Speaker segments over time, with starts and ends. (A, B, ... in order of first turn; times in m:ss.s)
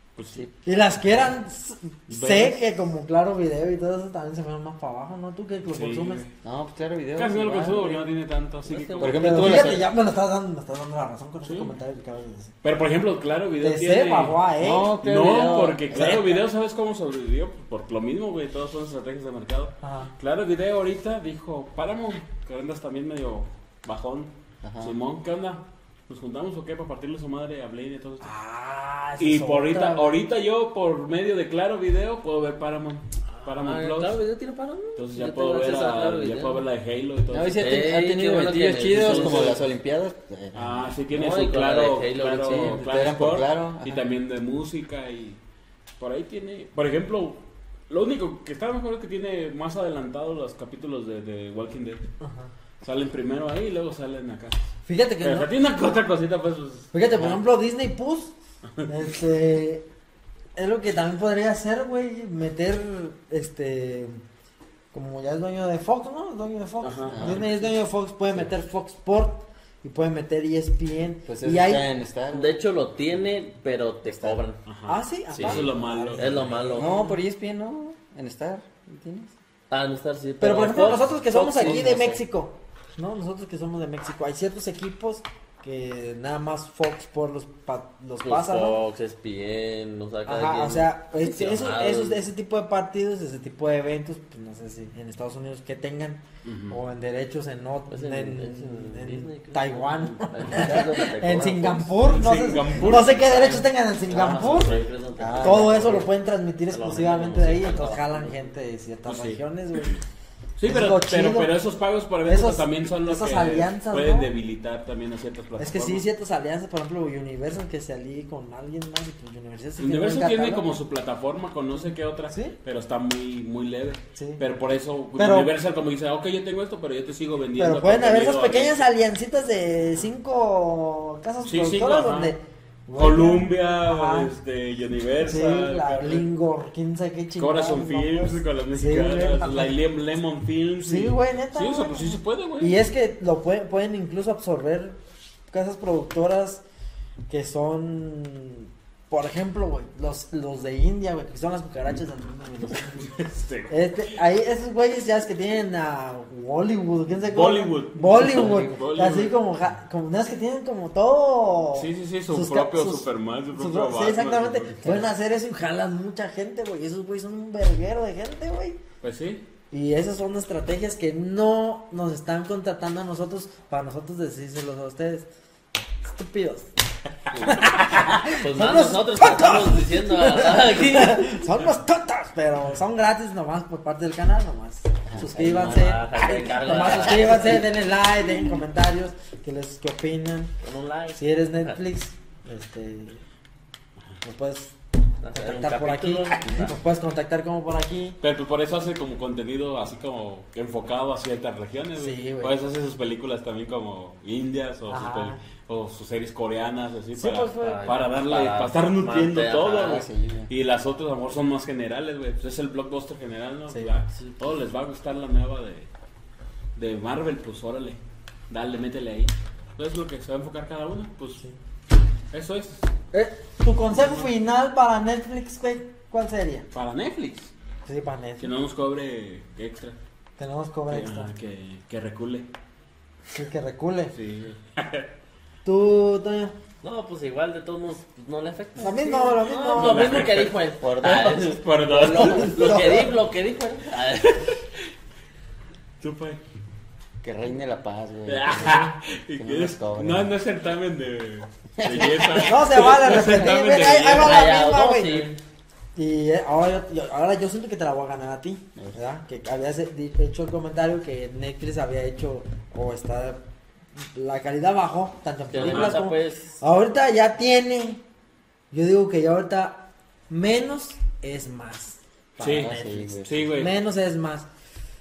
0:00.2-0:00.4 A
0:00.6-0:06.2 B
0:02.1-0:02.6 A
0:05.7-0:06.3 A
0:06.4-0:08.0 C
0:07.2-0:09.8 A
0:08.6-0:09.6 D
0:09.0-0:09.9 C
0:09.2-0:12.6 B
0:11.4-0:11.8 A
0:12.6-0:14.4 A
0:13.6-0:16.4 B
0:14.6-0:16.2 C
0:15.0-0:28.3 A
0:19.8-0:20.1 B
0:24.6-0:25.0 C
0:28.2-0:30.2 B
0:29.2-0:34.2 A
0:33.3-0:36.7 D
0:35.0-0:37.8 A
0:37.3-0:40.9 C
0:37.6-0:39.6 D
0:39.0-0:39.6 A
0:40.5-0:45.4 A
0:41.1-0:42.8 D
0:42.4-0:44.0 C
0:46.0-0:52.0 A
0:52.2-0:52.5 B
0:52.8-0:54.6 A
0:54.8-0:55.5 B
0:55.2-0:57.4 A
0:56.9-0:58.4 B
0:58.8-0:59.1 A
0:58.9-0:59.9 B
1:00.6-1:04.2 B
1:04.9-1:11.9 B
1:06.8-1:07.5 A
1:07.1-1:07.5 C
1:11.3-1:12.6 C
1:12.3-1:14.6 D
1:14.0-1:14.4 C
1:14.7-1:16.6 A
1:14.9-1:17.2 B
1:15.3-1:17.0 D
1:16.8-1:19.3 C
1:19.7-1:22.2 D
1:20.4-1:28.8 B
1:28.2-1:32.3 D
1:30.2-1:50.0 B
1:36.4-1:36.8 A
1:37.9-1:41.9 D
1:41.9-1:43.6 A
1:43.6-1:46.1 D
1:44.2-1:44.9 A
1:45.2-1:45.7 C
1:46.7-1:48.5 D
1:49.0-1:50.0 A
1:50.6-1:56.0 A
1:50.6-1:51.6 B
1:52.2-1:54.3 B
1:55.6-2:00.6 B
1:59.8-2:08.8 A
2:01.8-2:02.6 B
2:04.2-2:04.4 B
2:05.2-2:05.5 B
2:07.6-2:14.3 B
2:11.4-2:12.4 A
2:13.0-2:16.3 A
2:15.2-2:19.8 B
2:17.4-2:22.8 A
2:20.8-2:25.0 B
2:25.5-2:26.6 B
2:27.3-2:48.8 B
2:33.2-2:34.2 A
2:37.3-2:39.4 A
2:38.2-2:38.8 C
2:41.7-2:44.9 A
2:49.0-2:49.5 A
2:49.7-2:55.3 B
2:56.0-2:56.7 B
2:57.3-3:10.6 B
2:58.4-3:01.4 D
3:05.3-3:07.7 D
3:06.2-3:07.0 C
3:10.6-3:11.8 D
3:11.1-3:13.2 B
3:14.2-3:14.8 B
3:15.2-3:16.8 D
3:15.3-3:18.2 B
3:18.2-3:35.9 A
3:21.9-3:22.6 B
3:24.9-3:25.4 B
3:27.1-3:27.9 B
3:27.6-3:30.1 D
3:29.8-3:30.5 C
3:33.7-3:34.0 B
3:34.2-3:34.5 D
3:36.8-3:41.4 A
3:42.3-3:42.8 A
3:43.1-3:46.7 B
3:43.9-3:44.3 A
3:46.7-3:47.5 A
3:47.8-3:48.5 B
3:48.4-3:50.0 A
3:50.4-3:51.3 B
3:50.9-3:52.5 A
3:53.3-3:54.1 B
3:54.1-3:55.1 A
3:55.6-3:56.6 B
3:56.8-4:04.6 D
3:58.8-4:00.3 B
3:59.8-4:03.1 A
4:02.0-4:03.2 B
4:06.0-4:06.4 A
4:07.2-4:10.3 C
4:08.3-4:14.5 A
4:11.8-4:12.7 C
4:12.4-4:15.3 B
4:14.2-4:15.4 D
4:16.0-4:23.4 B
4:24.0-4:28.0 B
4:25.5-4:26.6 D
4:25.6-4:26.1 A
4:28.7-4:34.5 B
4:32.4-4:33.8 A
4:32.4-4:33.5 C